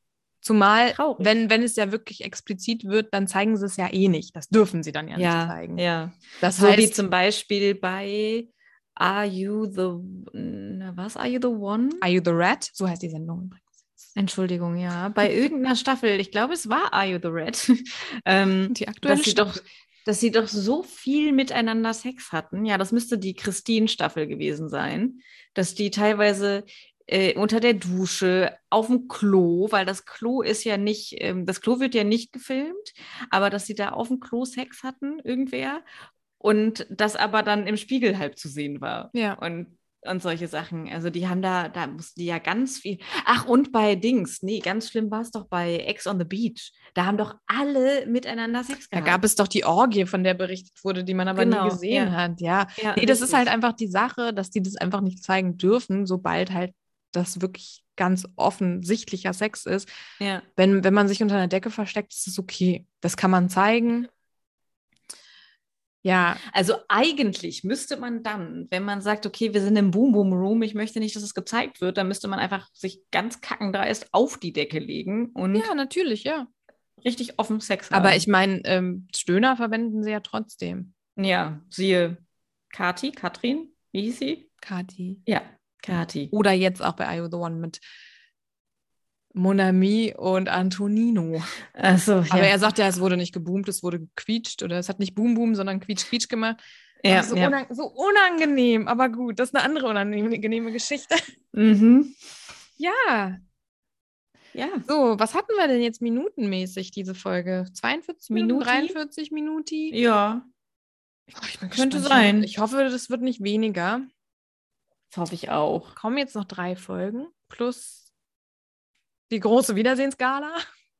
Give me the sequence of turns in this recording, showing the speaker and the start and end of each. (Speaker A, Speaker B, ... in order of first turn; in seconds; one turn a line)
Speaker A: 0.4-5.8
Speaker B: 0.9-1.3
Speaker B: 5.2-12.0
Speaker A: 6.4-7.0
Speaker A: 12.0-14.1
Speaker B: 14.2-35.8
Speaker A: 18.7-19.6
Speaker B: 36.4-49.2
Speaker A: 39.1-39.4
Speaker A: 48.9-59.9
Speaker B: 51.3-52.1
Speaker B: 52.8-53.5
Speaker B: 60.2-60.5
Speaker A: 60.6-64.1
Speaker A: 66.0-66.4
Speaker B: 66.4-75.7
Speaker A: 75.5-76.5
Speaker B: 77.0-78.2
Speaker A: 77.9-80.9
Speaker B: 81.2-82.2
Speaker B: 82.7-84.5
Speaker A: 84.6-85.2
Speaker B: 85.2-86.3
Speaker A: 86.3-87.8
Speaker A: 89.3-91.6
Speaker B: 91.7-92.5
Speaker A: 92.3-96.6
Speaker B: 97.0-97.5
Speaker A: 97.1-101.2
Speaker B: 101.5-102.1
Speaker A: 102.8-103.4
Speaker B: 104.5-104.8
Speaker A: 104.8-110.0
Speaker B: 108.3-109.0
Speaker B: 109.9-110.5
Speaker A: 111.3-114.0
Speaker B: 111.7-112.5
Speaker B: 115.1-115.9
Speaker A: 115.9-118.0
Speaker A: 119.3-120.6